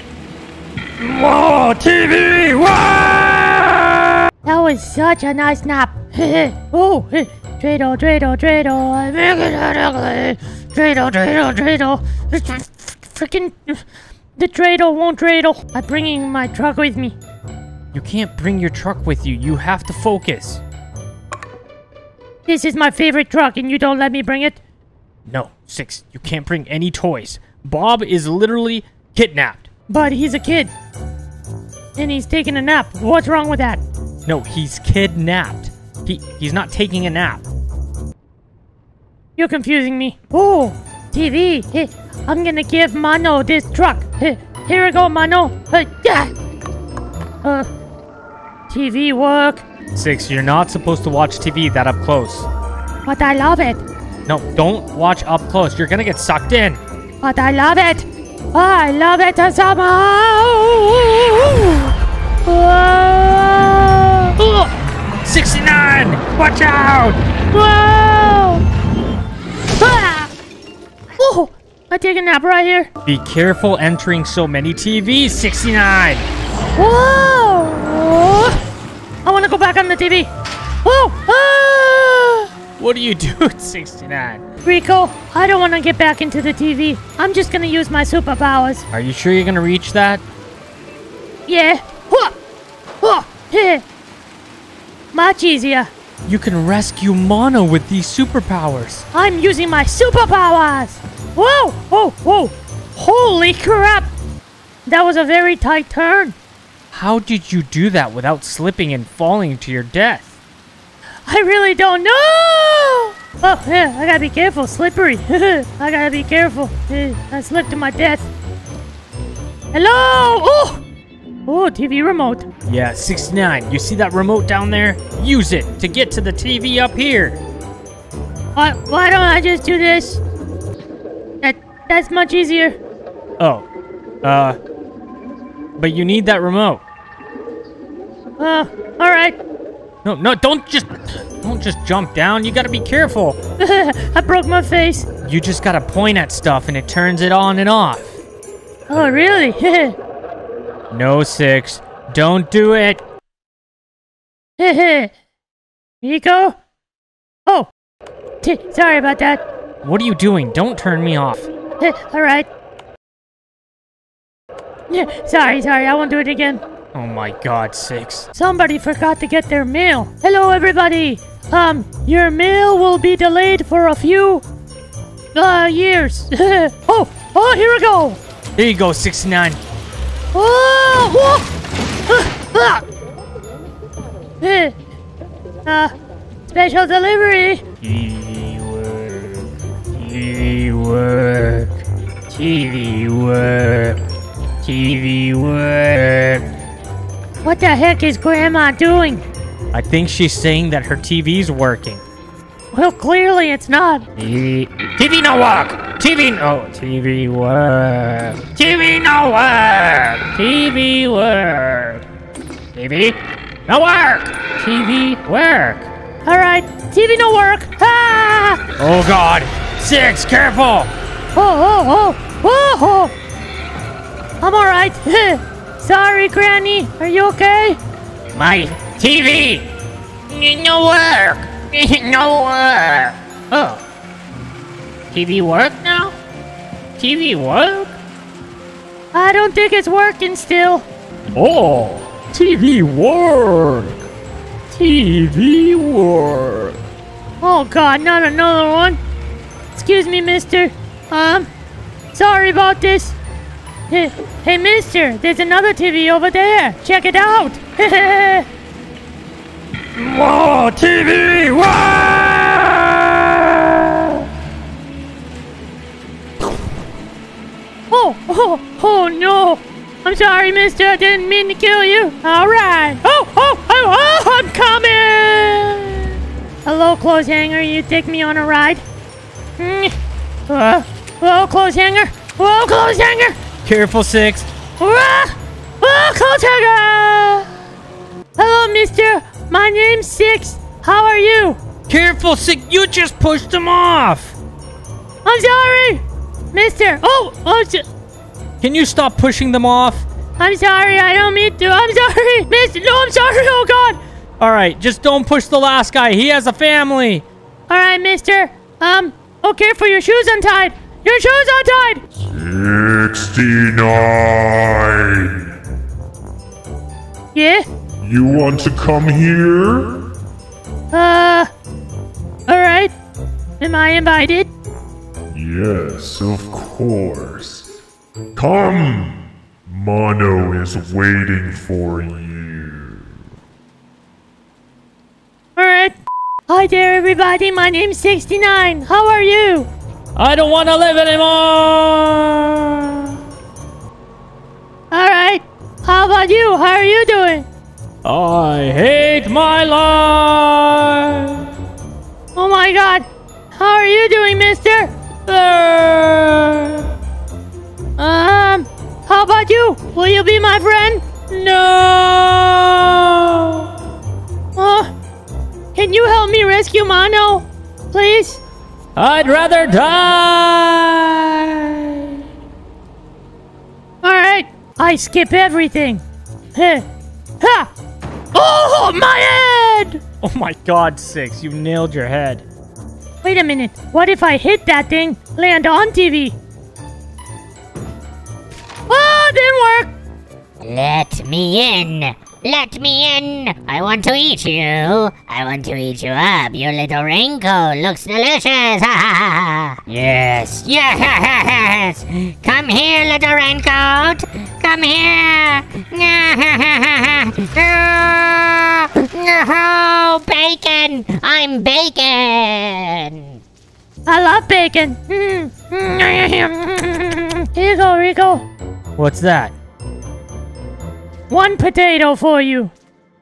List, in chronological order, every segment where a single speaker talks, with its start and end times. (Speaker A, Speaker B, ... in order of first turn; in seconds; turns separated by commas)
Speaker A: 1.0-3.9, Speaker B: 4.4-13.8, Speaker B: 14.4-17.1, Speaker A: 17.9-20.6, Speaker B: 22.5-24.6, Speaker A: 25.3-29.7, Speaker B: 29.9-30.7, Speaker B: 31.9-33.8, Speaker A: 34.2-37.4, Speaker B: 39.4-46.3, Speaker B: 48.7-49.6, Speaker A: 49.9-52.5, Speaker B: 53.0-53.8, Speaker A: 54.2-56.8, Speaker B: 57.2-61.9, Speaker B: 62.4-64.7, Speaker A: 65.2-67.2, Speaker B: 67.5-68.6, Speaker B: 69.7-70.3, Speaker B: 71.2-72.9, Speaker A: 73.0-76.3, Speaker B: 76.8-78.6, Speaker B: 79.2-80.3, Speaker B: 80.8-82.5, Speaker A: 82.8-84.4, Speaker B: 84.6-88.8, Speaker A: 88.9-90.2, Speaker B: 91.5-92.3, Speaker B: 93.0-93.8, Speaker B: 95.1-95.9, Speaker A: 96.3-99.0, Speaker B: 99.1-104.1, Speaker B: 104.8-106.3, Speaker A: 106.9-110.3, Speaker B: 111.2-118.3, Speaker B: 119.7-120.8, Speaker B: 121.5-122.5, Speaker A: 122.7-127.4, Speaker B: 128.5-130.2, Speaker B: 131.4-132.8, Speaker A: 133.4-133.7, Speaker A: 134.2-134.6, Speaker A: 135.8-136.8, Speaker B: 138.4-139.4, Speaker A: 140.0-143.4, Speaker B: 143.6-145.1, Speaker A: 145.2-148.2, Speaker B: 148.9-150.0, Speaker A: 150.9-153.0, Speaker B: 154.6-155.1, Speaker B: 156.0-156.6, Speaker B: 158.4-159.4, Speaker A: 159.8-161.5, Speaker B: 161.8-162.5, Speaker B: 164.9-166.6, Speaker A: 166.9-168.3, Speaker B: 168.3-174.4, Speaker B: 175.3-178.2, Speaker A: 178.6-179.6, Speaker B: 180.3-181.5, Speaker B: 182.1-182.8, Speaker B: 184.4-184.8, Speaker B: 185.7-185.9, Speaker B: 186.5-187.7, Speaker A: 187.8-191.7, Speaker A: 192.3-194.0, Speaker A: 194.6-196.4, Speaker B: 197.4-199.2, Speaker A: 199.7-202.0, Speaker B: 202.7-204.1, Speaker A: 204.2-212.1, Speaker A: 212.7-215.9, Speaker B: 216.2-218.6, Speaker A: 218.8-220.9, Speaker B: 221.3-223.1, Speaker B: 224.4-227.8, Speaker A: 228.3-229.7, Speaker A: 230.3-233.8, Speaker A: 235.1-236.1, Speaker A: 237.0-237.9, Speaker B: 239.1-240.8, Speaker A: 241.3-244.0, Speaker A: 244.7-246.8, Speaker B: 247.4-249.0, Speaker B: 249.7-251.5, Speaker B: 252.1-253.2, Speaker B: 253.9-258.4, Speaker A: 259.9-263.9, Speaker B: 267.9-276.1, Speaker B: 276.6-278.8, Speaker B: 279.6-279.9, Speaker B: 280.5-283.4, Speaker A: 283.6-284.5, Speaker B: 284.8-287.5, Speaker B: 288.4-291.6, Speaker A: 291.9-294.4, Speaker B: 295.2-297.8, Speaker A: 298.6-300.1, Speaker B: 300.4-304.0, Speaker A: 304.4-307.2, Speaker B: 307.7-312.0, Speaker C: 312.2-315.4, Speaker B: 317.3-317.6, Speaker C: 318.0-320.0, Speaker B: 320.9-321.5, Speaker B: 322.5-322.9, Speaker B: 323.6-324.5, Speaker C: 325.3-327.7, Speaker C: 328.4-333.0, Speaker B: 335.6-336.0, Speaker B: 336.5-339.7, Speaker A: 340.1-343.2, Speaker B: 344.9-347.5, Speaker A: 348.0-351.5, Speaker B: 352.3-354.9, Speaker A: 355.3-356.9, Speaker B: 358.0-361.1, Speaker A: 361.3-363.7, Speaker B: 364.6-364.9, Speaker B: 365.7-368.4, Speaker A: 368.9-372.2, Speaker B: 374.0-376.0, Speaker B: 376.5-376.8, Speaker B: 377.4-377.7, Speaker B: 378.3-380.0, Speaker A: 380.2-382.4, Speaker B: 383.2-386.4, Speaker B: 388.9-389.9, Speaker D: 390.6-413.3, Speaker B: 414.1-418.4, Speaker A: 419.0-419.5, Speaker B: 421.3-422.7